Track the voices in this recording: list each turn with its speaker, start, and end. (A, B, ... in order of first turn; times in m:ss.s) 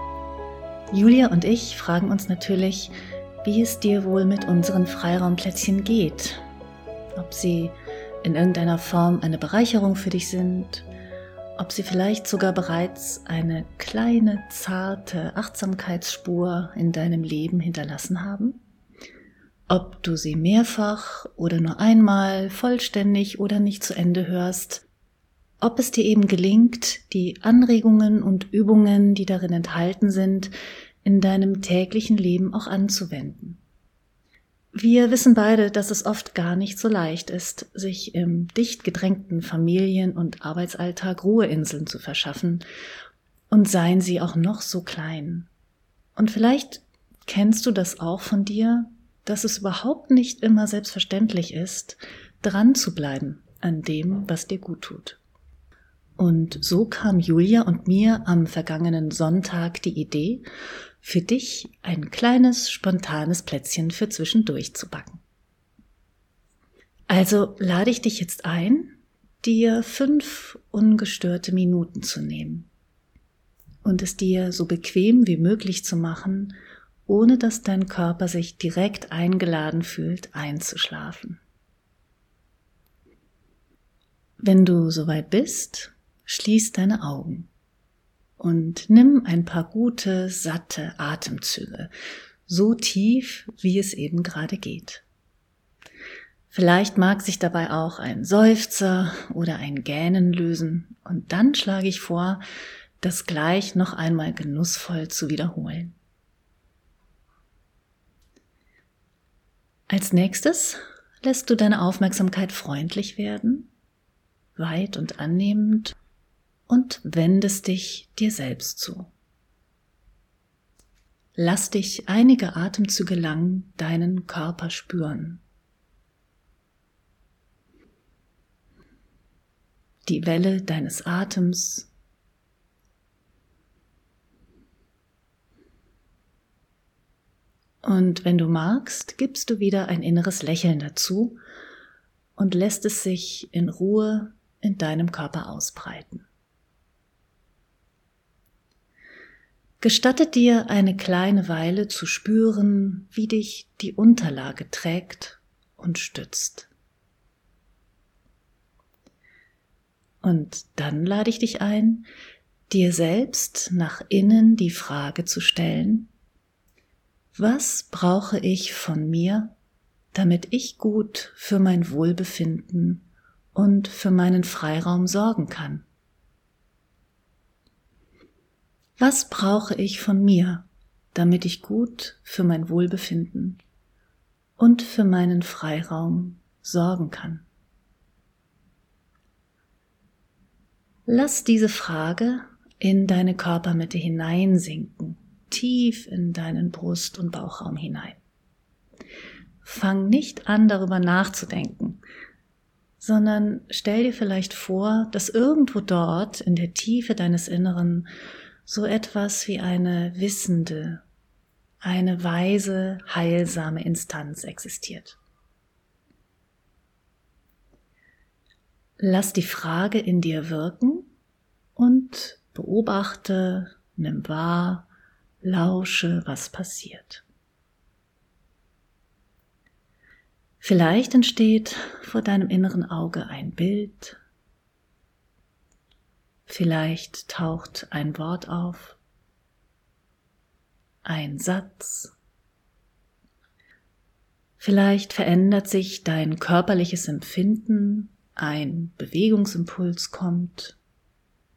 0:00.9-0:06.4 A
0:07.2-0:10.9 A
0:11.6-0:18.6 A
0:19.7-0:24.8 A
0:25.6-0:30.5 A
0:31.0-0:33.6 A
0:34.7-0:42.6 A
0:43.5-0:45.5 A
0:46.2-0:55.2 A
0:56.2-1:00.4 A
1:01.0-1:05.2 A
1:07.1-1:12.7 A
1:13.8-1:16.5 A
1:17.1-1:21.4 A
1:24.4-1:27.5 A
1:28.4-1:31.9 A
1:32.5-1:35.0 A
1:36.5-1:42.4 A
1:43.0-1:46.0 A
1:49.9-1:53.7 A
1:54.6-1:56.0 A
1:56.7-1:59.1 A
2:01.4-2:05.4 A
2:10.0-2:11.9 A
2:17.8-2:21.4 A
2:22.4-2:26.2 A
2:29.8-2:36.7 A
2:40.2-2:42.1 A
2:42.7-2:46.1 A
2:47.3-2:49.5 A
2:50.1-2:55.8 A
2:59.0-3:03.6 A
3:04.6-3:07.4 A
3:11.1-3:18.2 A
3:19.6-3:22.0 A
3:23.0-3:28.1 A
3:28.6-3:31.0 A
3:31.8-3:35.2 A
3:39.0-3:41.1 A
3:41.8-3:44.9 A
3:45.4-3:47.2 A
3:50.6-3:54.2 A
3:56.5-3:59.0 A
4:01.0-4:02.1 A
4:04.6-4:10.8 A